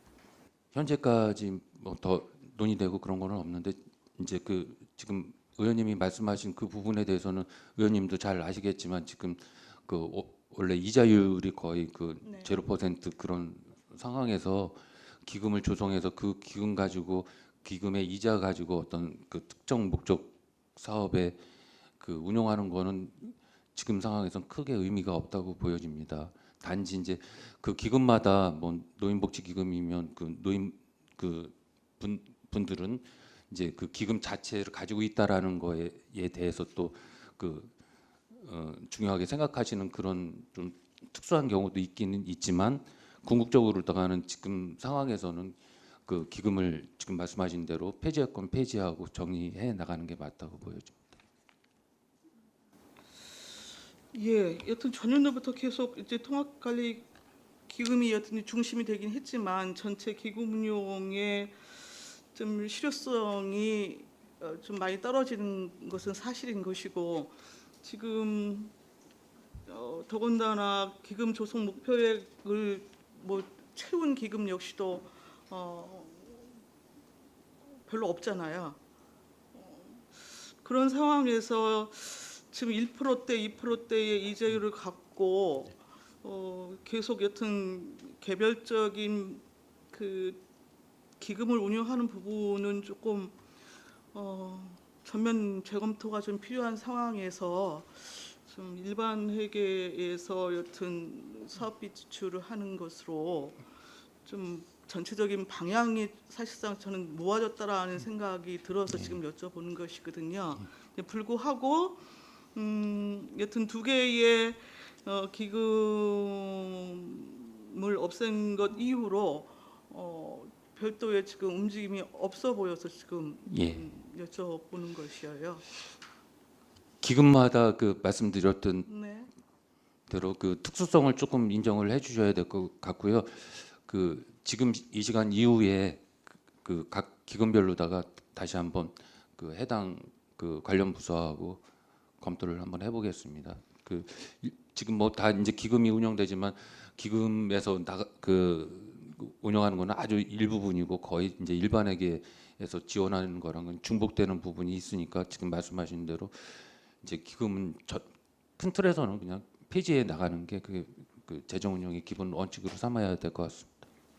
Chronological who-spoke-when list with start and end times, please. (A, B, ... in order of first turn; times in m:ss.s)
0:00.7-0:21.4 A
0:12.2-0:12.6 B
0:22.0-0:37.7 A
0:38.3-0:51.0 A
0:54.1-0:57.1 B
0:57.7-1:08.7 B
1:09.7-1:16.6 B
1:17.7-1:18.8 B
1:19.5-1:30.4 B
1:31.2-1:33.4 B
1:34.1-1:43.6 B
1:44.2-2:05.6 B
1:48.9-1:49.2 A
2:03.5-2:03.9 A
2:07.0-2:08.9 A
2:08.9-2:09.3 B
2:10.1-2:21.6 A
2:22.2-2:38.1 A
2:38.6-2:43.8 A